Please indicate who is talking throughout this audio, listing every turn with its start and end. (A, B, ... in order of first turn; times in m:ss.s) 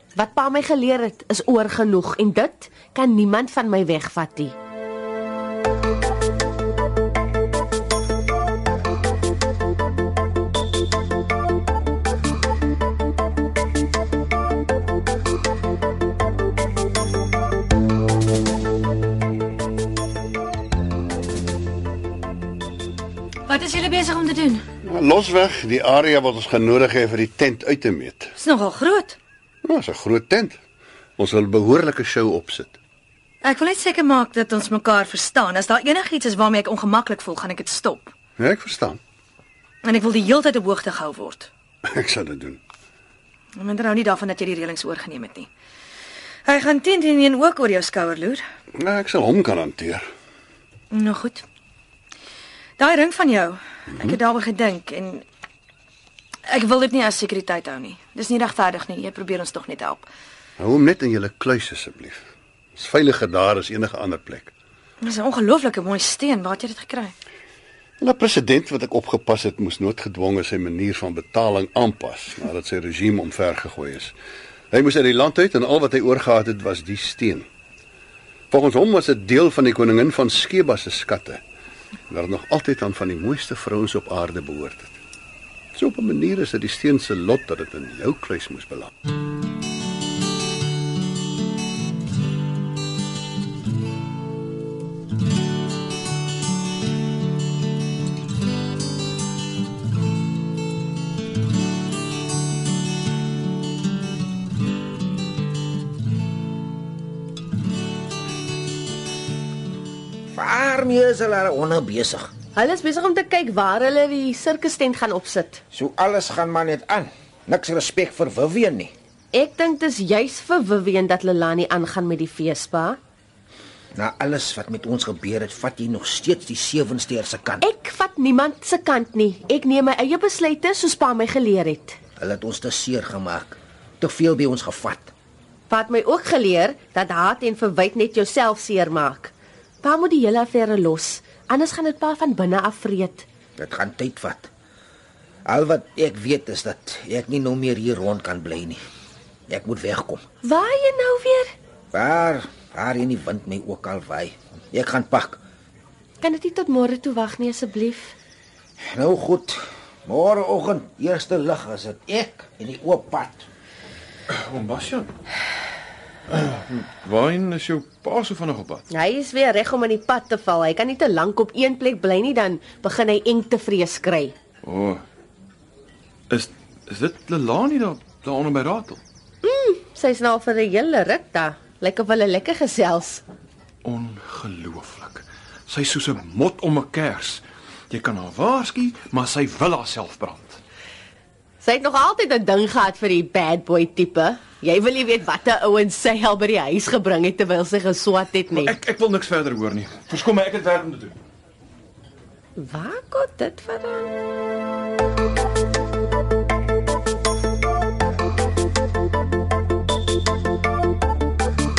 0:00.2-0:04.5 A
0:23.5-0:24.6 B
0:24.8-0:28.3 C
0:28.4-0:29.2 B
0:29.6-0:30.6 C
0:31.2-0:32.8 C
0:33.4-0:38.1 B
0:38.4-0:39.0 C
0:39.8-0:41.5 B
0:41.8-0:42.6 C
0:43.6-0:45.5 B
0:46.5-0:48.4 B
0:48.8-0:50.1 C
0:50.9-0:51.4 B
0:52.8-0:55.2 B
0:56.5-1:00.1 B
1:00.6-1:02.2 C
1:02.8-1:04.5 C
1:05.0-1:07.2 B
1:08.0-1:14.1 C
1:14.7-1:17.5 C
1:18.5-1:21.4 C
1:22.1-1:25.0 C
1:25.8-1:28.9 C
1:50.3-1:52.3 D
1:52.6-1:55.6 A
1:55.7-1:58.9 D
1:59.3-2:03.0 A
2:04.0-2:07.6 D
2:07.6-2:12.0 A
2:12.2-2:15.1 D
2:15.7-2:23.3 A
2:23.6-2:24.5 D
2:25.5-2:28.8 D
2:29.5-2:30.2 D
2:30.4-2:31.5 A
2:31.9-2:35.4 D
2:36.2-2:38.2 A
2:38.9-2:43.5 D
2:44.3-2:45.1 E
2:46.3-2:48.8 E
2:48.9-2:54.3 A
2:54.6-2:55.0 E
2:56.3-2:59.0 E
2:59.4-3:03.2 A
3:03.8-3:10.6 E
3:11.6-3:18.7 A
3:18.5-3:21.2 E
3:22.6-3:24.1 A